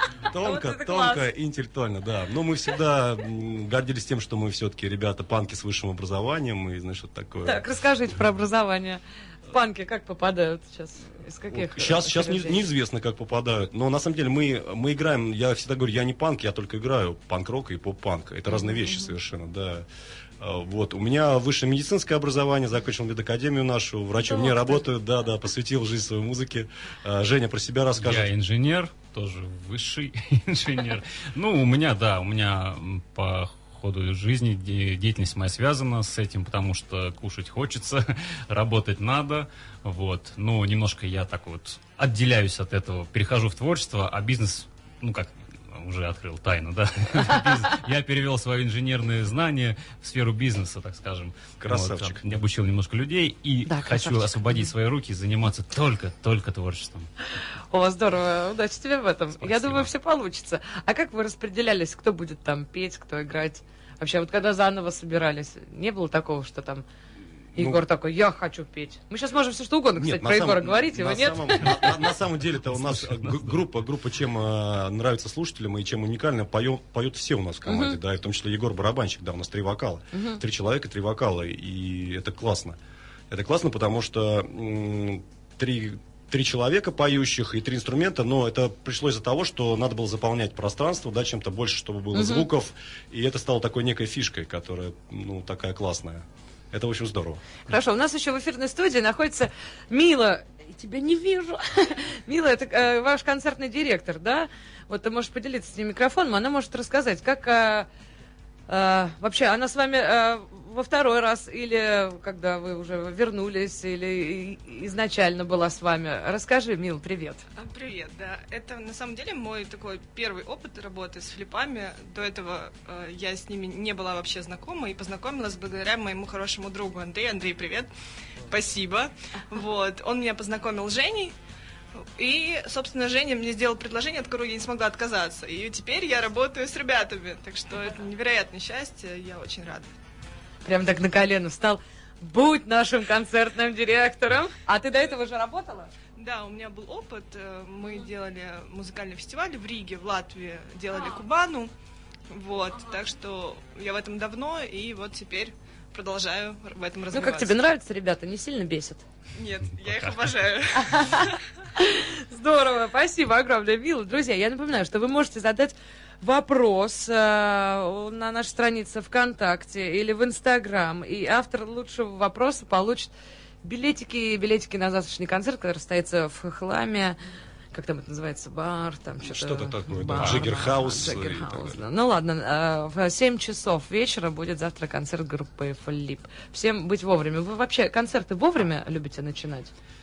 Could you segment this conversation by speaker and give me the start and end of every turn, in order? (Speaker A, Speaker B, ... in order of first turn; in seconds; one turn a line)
Speaker A: 0.3-7.6
Speaker B: 0.4-1.2
Speaker B: 7.4-12.6
Speaker A: 11.5-19.8
Speaker B: 18.5-19.1
Speaker A: 20.4-28.3
Speaker B: 24.3-24.8
Speaker C: 28.0-57.1
Speaker A: 51.6-52.2
Speaker B: 53.7-54.7
Speaker B: 57.7-66.8
Speaker C: 59.4-59.9
Speaker A: 67.5-67.8
Speaker B: 67.5-71.9
Speaker A: 70.0-82.8
Speaker C: 71.6-72.0
Speaker C: 72.7-73.6
Speaker B: 77.7-78.0
Speaker B: 80.1-80.4
Speaker A: 83.3-97.5
Speaker B: 92.1-92.5
Speaker B: 97.7-107.9
Speaker B: 108.7-117.4
Speaker D: 117.6-127.9
Speaker D: 128.5-131.3
Speaker D: 132.2-139.9
Speaker B: 140.6-145.9
Speaker D: 146.2-151.7
Speaker D: 152.3-157.6
Speaker B: 157.1-159.0
Speaker D: 159.3-161.4
Speaker C: 159.9-160.2
Speaker B: 160.8-173.1
Speaker B: 173.6-177.2
Speaker B: 177.7-189.7
Speaker A: 179.2-181.8
Speaker C: 180.2-180.7